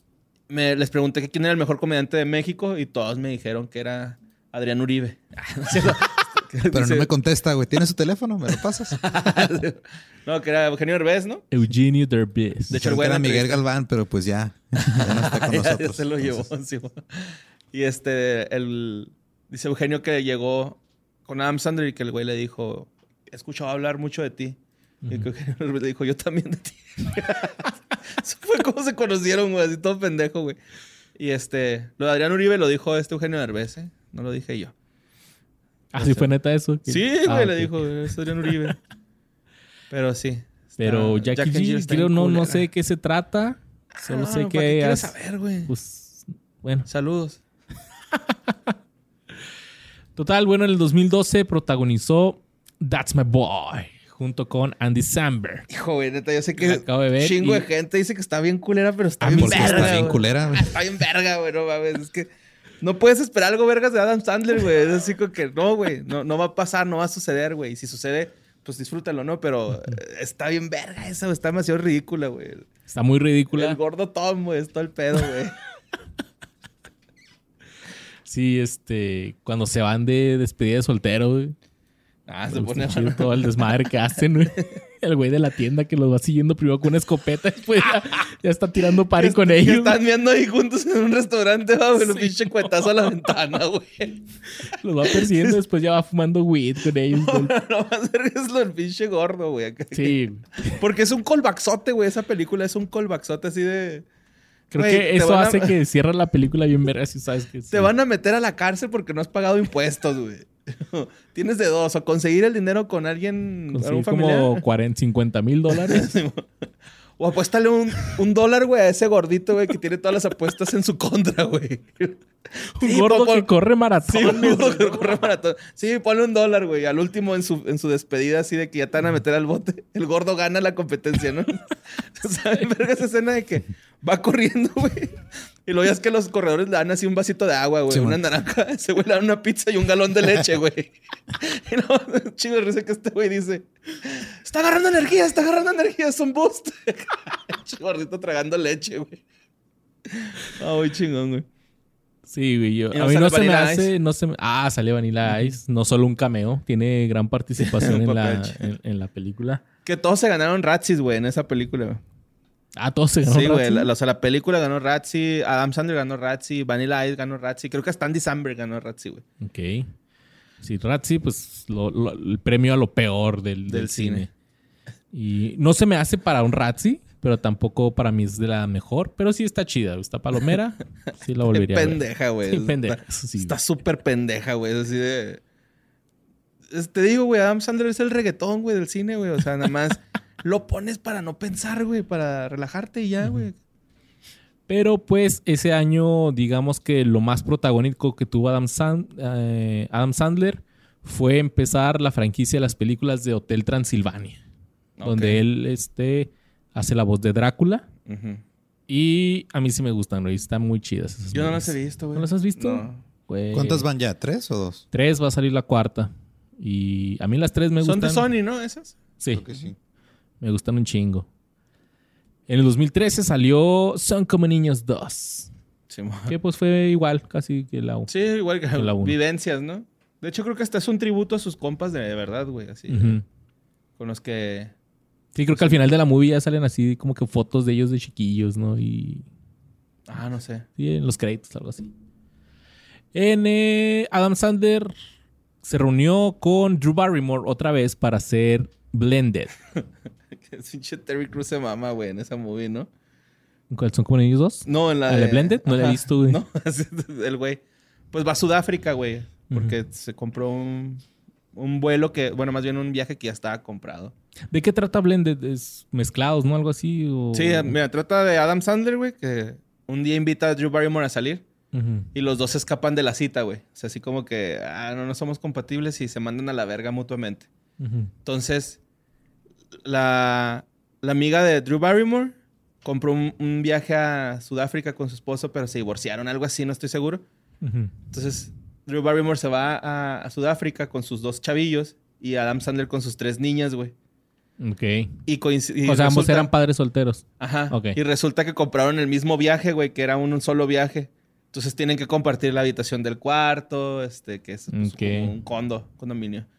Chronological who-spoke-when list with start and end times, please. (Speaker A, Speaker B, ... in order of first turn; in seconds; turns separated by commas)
Speaker A: 0.5-7.1, Speaker B: 6.7-9.0, Speaker A: 8.9-11.5, Speaker C: 11.5-12.8, Speaker A: 12.7-13.6, Speaker B: 12.7-16.5, Speaker A: 14.8-24.6, Speaker A: 25.1-30.6, Speaker A: 31.2-34.7, Speaker C: 35.9-37.9, Speaker A: 36.0-36.3, Speaker A: 36.9-38.8, Speaker A: 39.9-42.7, Speaker C: 40.8-45.1, Speaker A: 44.0-45.7, Speaker C: 45.7-46.9, Speaker A: 46.9-47.4, Speaker C: 48.2-48.7, Speaker C: 50.2-55.6, Speaker A: 55.7-62.3, Speaker C: 56.6-57.7, Speaker B: 59.2-60.8, Speaker C: 59.2-60.2, Speaker A: 62.8-72.7, Speaker C: 72.9-73.8, Speaker A: 73.5-75.6, Speaker C: 78.3-81.6, Speaker A: 82.3-83.6, Speaker C: 82.5-90.0, Speaker A: 89.1-94.2, Speaker C: 92.0-92.9, Speaker C: 94.6-97.5, Speaker A: 95.1-95.6, Speaker A: 97.1-104.0, Speaker C: 99.9-100.8, Speaker C: 104.7-107.9, Speaker A: 104.7-105.8, Speaker A: 107.7-114.6, Speaker C: 113.7-116.1, Speaker A: 115.7-116.5, Speaker A: 117.2-123.5, Speaker C: 122.8-125.2, Speaker A: 124.0-149.2, Speaker B: 137.9-138.2, Speaker A: 150.1-151.4, Speaker C: 152.3-159.6, Speaker A: 152.9-153.9, Speaker A: 157.6-158.7, Speaker A: 159.8-162.0, Speaker C: 162.8-163.9, Speaker A: 163.2-169.2, Speaker C: 169.4-169.9, Speaker C: 170.6-174.3, Speaker A: 173.7-174.3, Speaker C: 175.1-183.6, Speaker A: 181.5-185.4, Speaker A: 186.7-193.6, Speaker C: 193.2-193.5, Speaker C: 194.7-204.4, Speaker A: 205.0-205.4, Speaker C: 205.0-207.9, Speaker A: 208.1-208.4, Speaker C: 208.9-213.9, Speaker A: 211.3-213.0, Speaker B: 213.5-214.8, Speaker C: 214.9-218.3, Speaker A: 217.8-219.0, Speaker C: 219.2-219.5, Speaker B: 219.3-219.8, Speaker C: 220.4-221.3, Speaker C: 222.5-225.5, Speaker A: 225.9-226.3, Speaker C: 226.3-228.1, Speaker A: 228.1-233.2, Speaker C: 228.7-229.2, Speaker C: 232.9-233.2, Speaker A: 234.0-234.7, Speaker C: 235.3-239.3, Speaker A: 235.5-235.8, Speaker A: 240.1-240.7, Speaker C: 240.8-241.9, Speaker C: 243.1-244.9, Speaker C: 245.6-249.6, Speaker A: 250.3-252.9, Speaker C: 253.7-256.4, Speaker A: 254.7-257.6, Speaker A: 258.1-261.0, Speaker C: 259.5-259.8, Speaker A: 261.6-264.1, Speaker C: 264.5-267.8, Speaker A: 267.3-271.4, Speaker C: 271.7-272.1, Speaker A: 272.1-277.5, Speaker C: 277.8-278.1, Speaker A: 278.2-278.8, Speaker A: 279.8-287.2, Speaker C: 287.6-287.9, Speaker A: 288.1-293.9, Speaker C: 294.6-295.2, Speaker A: 295.3-296.5, Speaker C: 295.9-298.0, Speaker A: 297.4-306.5, Speaker C: 304.7-305.3